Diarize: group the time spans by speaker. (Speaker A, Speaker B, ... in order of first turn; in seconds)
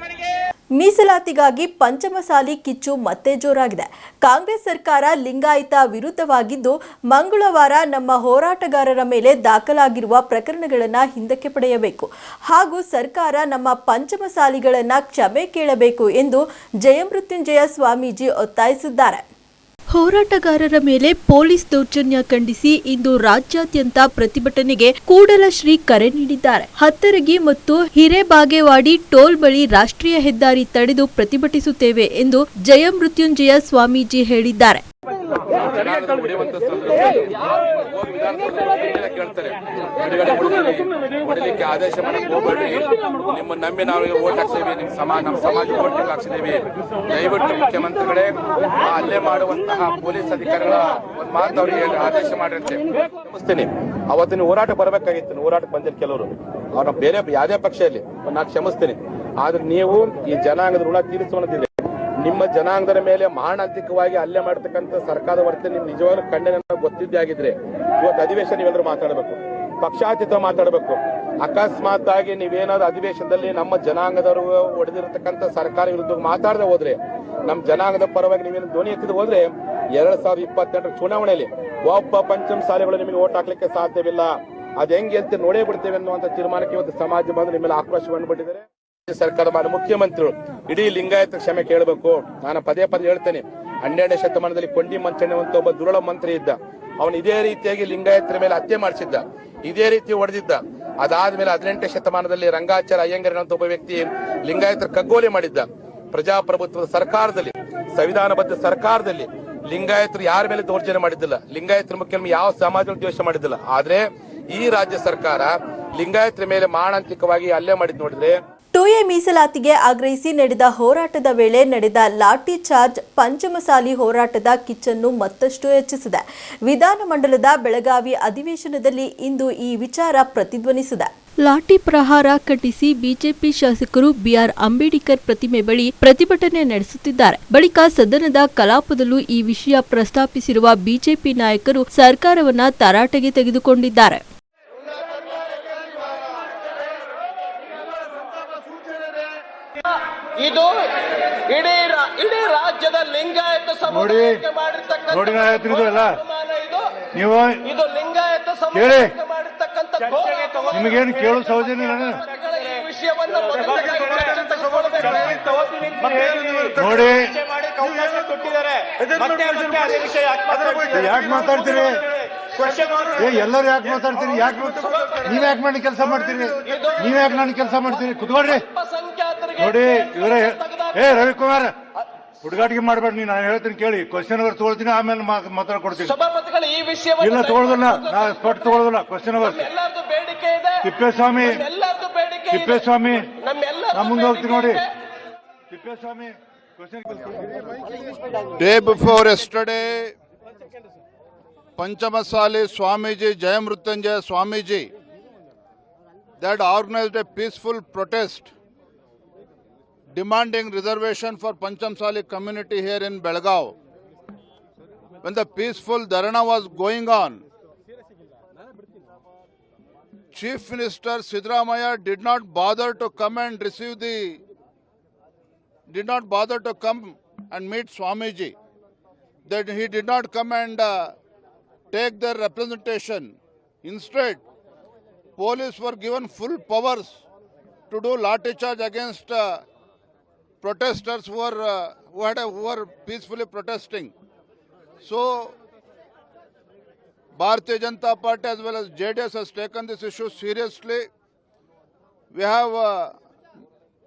Speaker A: 0.8-19.2, 19.9-34.8, 118.7-144.2
Speaker B: 35.7-118.4
Speaker C: 150.2-157.1, 157.6-181.3, 185.9-194.9
Speaker D: 153.9-154.4, 155.1-156.2, 157.1-157.6, 158.7-159.2, 160.1-162.2, 163.6-168.1, 169.0-172.1, 172.7-178.7, 179.6-181.8, 182.4-186.1, 187.2-189.7, 190.8-191.7, 192.5-193.3, 193.9-194.8, 195.7-197.4
Speaker E: 198.6-200.1, 201.8-204.9, 206.4-208.5, 210.1-213.7, 215.2-217.4, 220.3-224.4, 225.9-228.6, 229.5-231.1, 231.9-233.3, 233.8-234.4, 235.4-237.2, 237.9-239.4, 240.6-244.1, 245.0-245.6, 247.4-251.1, 252.3-253.2